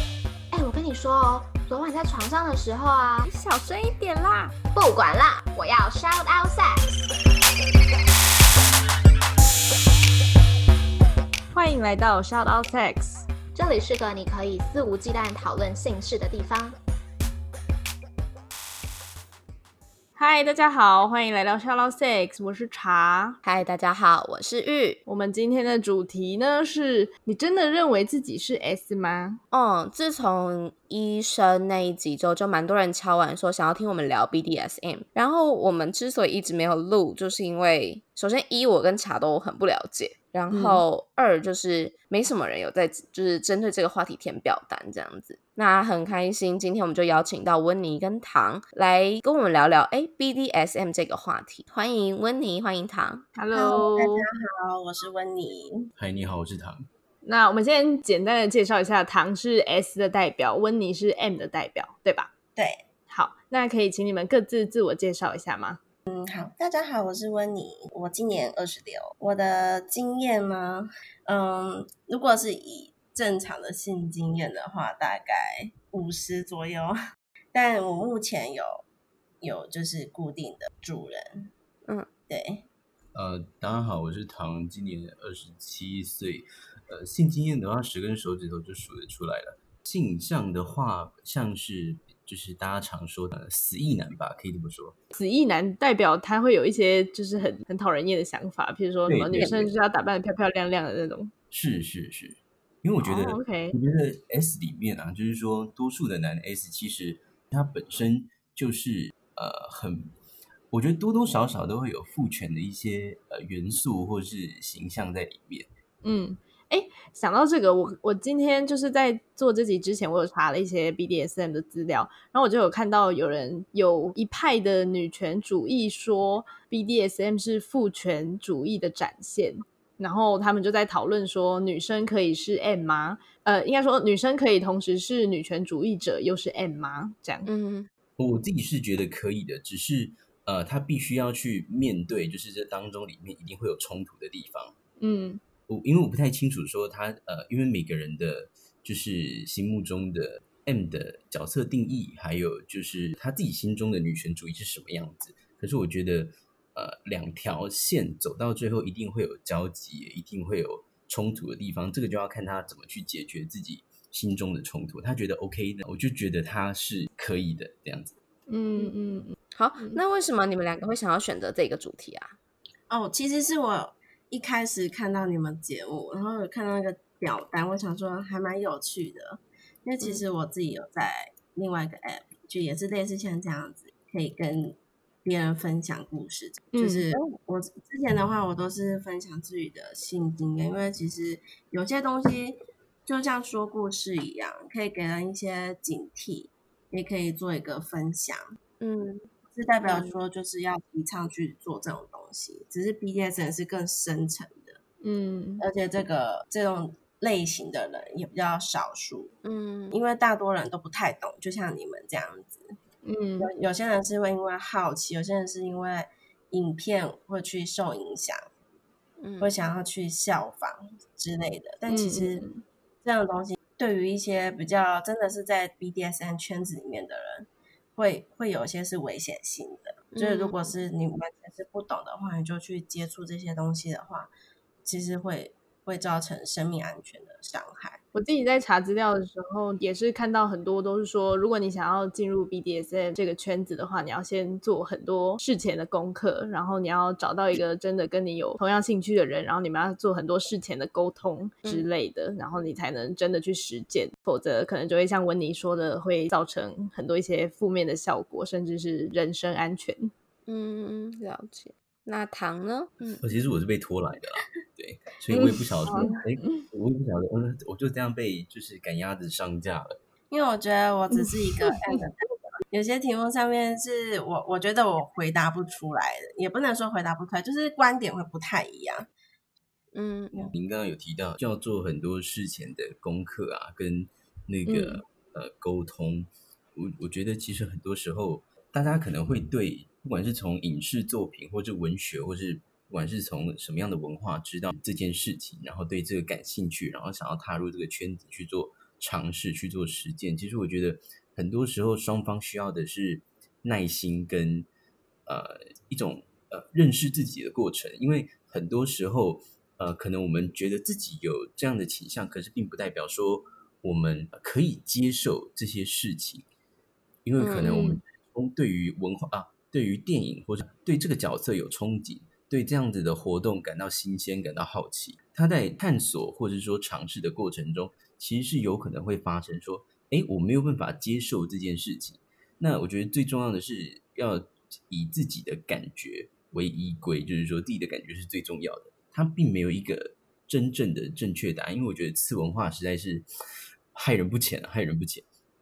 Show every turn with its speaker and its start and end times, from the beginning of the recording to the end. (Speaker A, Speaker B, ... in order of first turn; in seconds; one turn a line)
Speaker A: 0.5-6.9
Speaker B: 11.5-13.3
Speaker A: 13.5-16.7
Speaker B: 20.1-23.4
Speaker C: 23.4-25.0
Speaker B: 25.1-29.4
Speaker C: 29.5-53.3
Speaker B: 40.5-40.8
Speaker B: 53.4-54.3
Speaker D: 53.5-55.9
Speaker E: 56.0-56.9
Speaker B: 57.2-62.3
Speaker D: 62.5-62.8
Speaker B: 63.1-65.8
Speaker D: 66.1-77.0
Speaker D: 77.5-78.8
Speaker D: 79.4-81.5
Speaker D: 82.3-82.6
Speaker E: 83.1-95.0
Speaker B: 95.1-101.3
Speaker E: 99.0-99.7
Speaker E: 101.5-110.1
Speaker B: 103.0-103.7
Speaker E: 110.7-115.7
Speaker B: 116.0-137.5
Speaker C: 137.4-137.9
Speaker E: 138.2-144.7
Speaker B: 145.0-145.4
Speaker E: 145.7-168.1
Speaker B: 168.5-170.0
Speaker C: 169.5-172.3
Speaker D: 172.9-198.4
Speaker B: 186.7-187.1
Speaker C: 198.8-199.3
Speaker D: 199.5-204.8
Speaker C: 199.8-200.1
Speaker B: 205.0-205.6
Speaker D: 205.6-209.3
Speaker C: 209.4-209.9
Speaker D: 209.9-212.7
Speaker B: 213.0-213.5
Speaker D: 213.4-218.4
Speaker C: 219.2-219.5
Speaker D: 219.4-222.4
Speaker B: 221.9-222.6
Speaker D: 223.0-234.3
Speaker C: 230.1-230.7
Speaker D: 234.8-238.0
Speaker B: 238.1-260.1
Speaker C: 260.5-263.2
Speaker E: 263.2-270.0
Speaker B: 265.3-266.6
Speaker D: 270.3-279.1
Speaker B: 271.2-272.0
Speaker C: 279.9-280.5
Speaker E: 280.5-304.7
Speaker C: 284.7-285.0
Speaker E: 305.2-316.4
Speaker E: 317.2-343.2
Speaker C: 317.4-318.0
Speaker E: 343.9-345.2